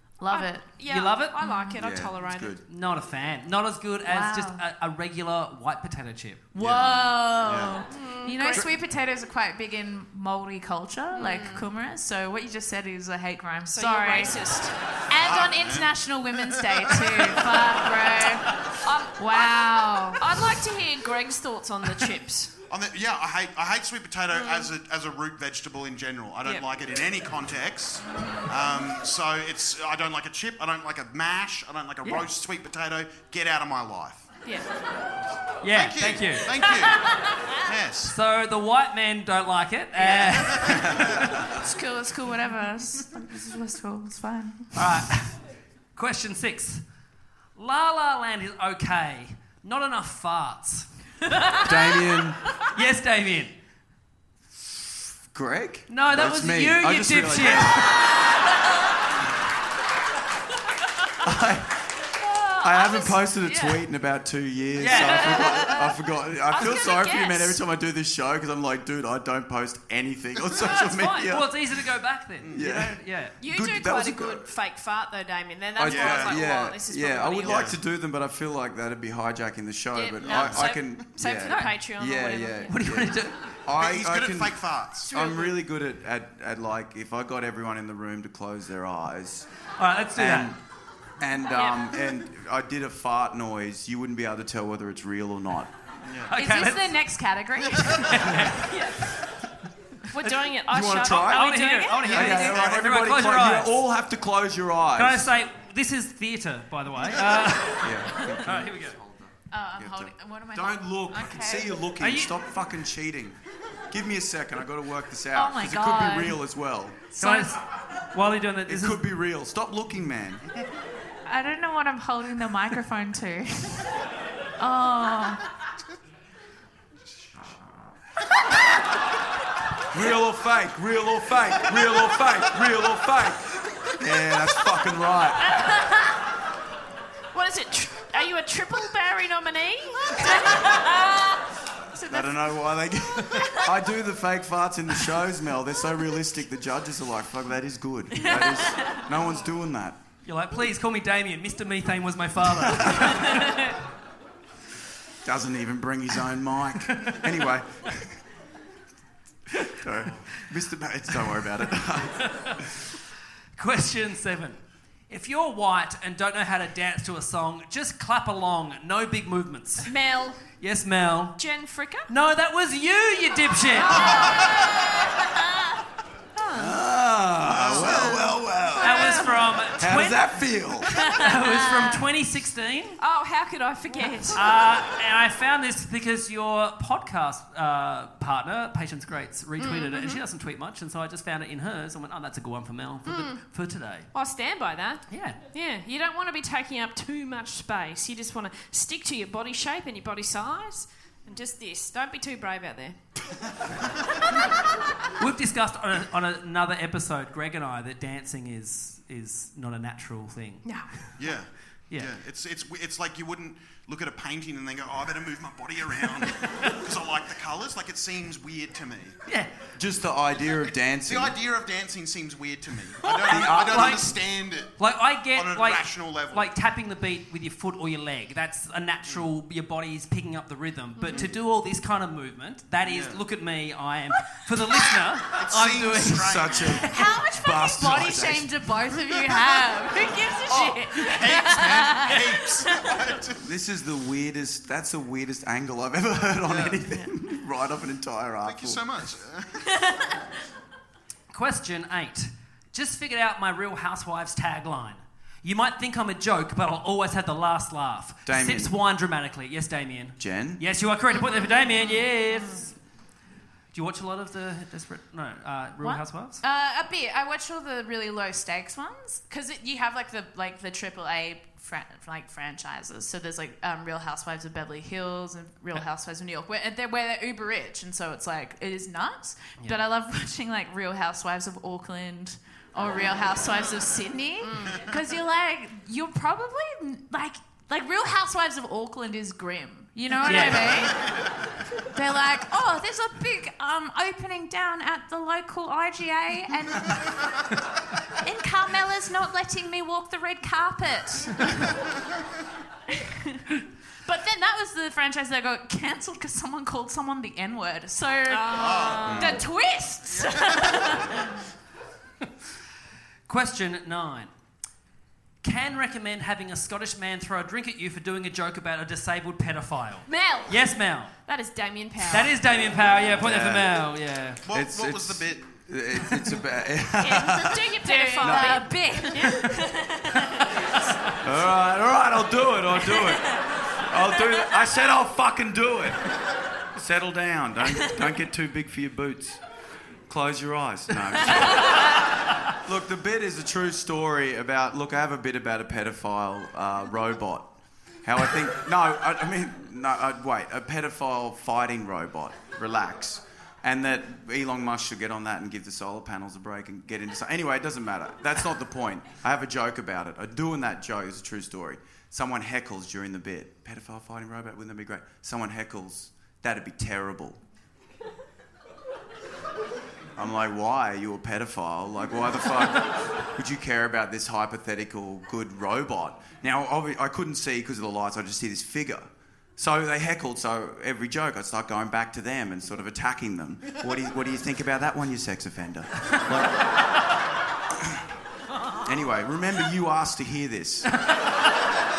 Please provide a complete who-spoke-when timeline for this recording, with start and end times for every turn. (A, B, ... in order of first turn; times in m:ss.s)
0:00.2-0:00.7 A
0:00.3-0:02.6 B
0:00.9-0:01.4 C
0:01.4-0:01.8 A
0:01.8-0:02.6 D
0:02.7-0:06.5 C
0:04.1-0:04.6 A
0:06.6-0:14.4 A
0:06.6-0:07.0 D
0:06.6-0:06.9 E
0:07.4-0:07.8 E
0:07.9-0:08.6 B
0:11.1-0:11.7 B
0:13.7-0:14.8 B
0:15.1-0:18.5 A
0:15.2-0:17.6 E
0:18.8-0:22.5 B
0:19.2-0:20.3 A
0:22.7-0:34.3 E
0:24.3-0:24.7 B
0:32.0-0:32.3 C
0:35.6-0:36.5 C
0:35.7-0:38.1 E
0:38.1-0:41.3 C
0:40.6-0:41.2 E
0:41.6-0:44.8 A
0:44.8-0:45.4 C
0:46.0-0:46.8 C
0:47.6-0:50.9 C
0:51.6-0:52.4 D
0:52.7-0:53.5 C
0:55.3-0:58.2 D
0:55.9-0:57.9 C
1:01.2-1:01.9 D
1:02.2-1:03.6 B
1:02.6-1:11.5 D
1:04.8-1:05.5 C
1:04.9-1:06.0 B
1:06.5-1:07.6 B
1:10.7-1:13.4 C
1:12.4-1:12.7 E
1:12.5-1:14.5 D
1:13.4-1:17.7 B
1:15.8-1:29.5 D
1:15.8-1:16.5 E
1:17.4-1:17.8 E
1:19.9-1:22.7 B
1:20.2-1:20.9 E
1:22.7-1:23.4 C
1:23.7-1:25.1 E
1:25.1-1:25.5 B
1:29.8-1:30.5 C
1:30.1-1:30.6 D
1:31.2-1:35.7 D
1:31.5-1:32.1 B
1:36.1-1:36.3 E
1:36.3-1:37.0 C
1:36.4-1:38.4 A
1:38.0-1:38.6 C
1:38.6-1:39.1 B
1:40.1-1:42.4 B
1:40.7-1:45.3 D
1:41.2-1:43.8 C
1:42.0-1:42.8 E
1:45.0-1:49.0 C
1:47.7-1:53.4 D
1:49.5-1:51.8 A
1:52.0-1:52.4 C
1:53.9-1:57.1 D
1:55.3-1:56.4 A
1:57.2-1:57.6 C
1:57.2-1:57.5 A
1:58.1-1:59.1 C
1:58.6-2:00.4 D
2:01.3-2:04.0 A
2:04.6-2:05.4 A
2:09.9-2:15.6 D
2:15.4-2:16.1 B
2:17.3-2:21.4 B
2:22.1-2:30.0 D
2:30.2-2:33.6 C
2:32.5-2:33.2 D
2:35.2-2:38.2 D
2:37.0-2:37.2 C
2:39.6-2:42.6 D
2:42.2-2:42.7 C
2:43.6-2:49.9 C
2:49.8-2:50.4 B
2:50.6-2:51.4 C
2:51.4-2:52.1 B
2:52.1-2:54.2 C
2:53.8-2:54.7 B
2:54.1-2:54.5 E
2:56.4-2:56.8 B
2:56.5-2:59.1 D
2:57.5-2:58.4 E
2:57.8-2:59.4 B
2:58.8-3:00.3 C
2:59.8-3:00.9 D
3:01.1-3:03.0 C
3:01.4-3:02.0 A
3:03.0-3:04.4 B
3:04.4-3:14.1 C
3:09.6-3:10.2 B
3:13.0-3:13.4 B
3:14.1-3:23.0 B
3:15.1-3:15.4 C
3:25.2-3:30.7 C
3:30.6-3:30.9 B
3:31.2-3:39.2 E
3:39.3-3:39.5 C
3:39.8-3:41.4 D
3:41.1-3:44.8 E
3:43.0-3:44.1 C
3:43.2-3:43.9 D
3:44.8-3:56.6 C
3:45.3-3:46.5 E
3:51.0-3:51.3 B
3:52.8-3:53.2 E
3:55.3-3:56.9 E
3:56.0-3:58.5 D
3:56.9-4:03.0 A
4:00.5-4:03.4 E
4:03.4-4:08.8 D
4:06.4-4:06.8 E
4:08.4-4:09.7 E
4:11.3-4:22.7 C
4:18.2-4:18.8 D
4:20.2-4:20.6 D
4:23.7-4:26.4 C
4:25.8-4:51.2 A
4:44.4-4:44.8 B
4:50.2-4:50.7 C
4:51.9-4:57.3 A
4:58.2-5:01.8 A
5:02.9-5:11.4 A
5:08.3-5:09.4 B
5:08.5-5:09.5 E
5:13.3-5:14.3 C
5:15.4-5:21.1 C
5:20.1-5:20.6 B
5:21.2-5:22.4 B
5:22.1-5:24.4 C
5:23.2-5:23.8 D
5:24.5-5:25.5 E
5:24.5-5:27.6 D
5:27.0-5:29.5 B
5:27.8-5:30.4 A
5:28.2-5:28.8 D
5:31.2-5:36.1 D
5:32.9-5:33.4 A
5:36.7-5:39.4 D
5:40.1-5:42.0 D
5:42.5-5:47.5 D
5:48.0-6:07.4 D
6:10.2-6:26.6 D
6:28.8-6:30.9 D